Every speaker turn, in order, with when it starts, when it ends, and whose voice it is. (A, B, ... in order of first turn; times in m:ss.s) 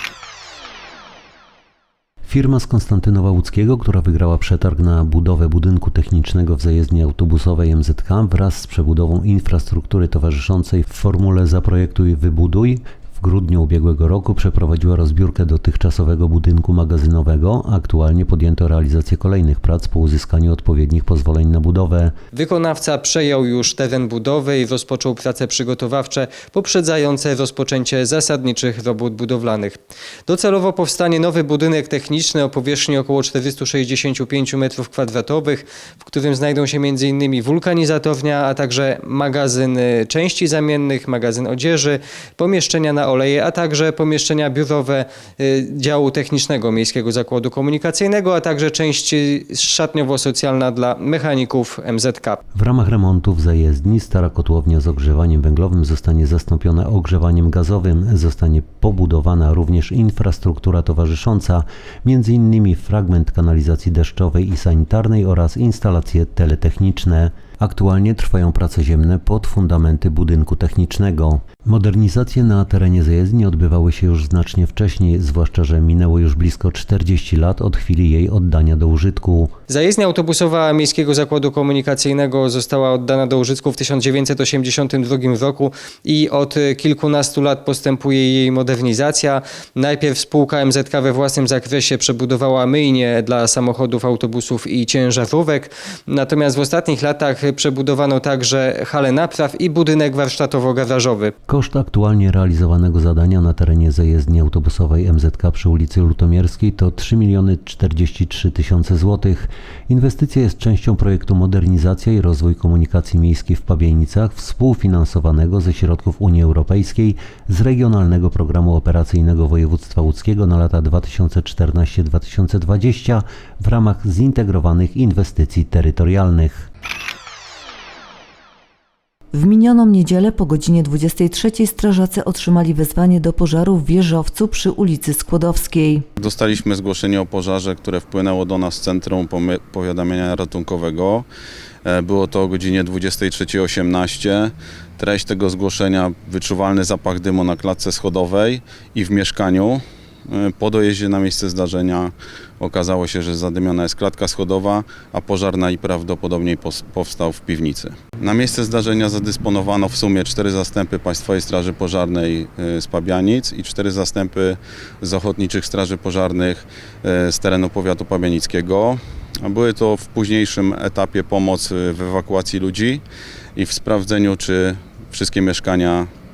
0:02.2-0:22.2 A
0:22.3-0:52.4 B
0:52.6-1:19.5 A
1:19.7-1:41.3 B
1:41.5-2:06.7 A
2:09.3-2:16.0 C
2:16.2-2:21.3 D
2:21.8-2:53.0 D
2:53.6-2:56.1 D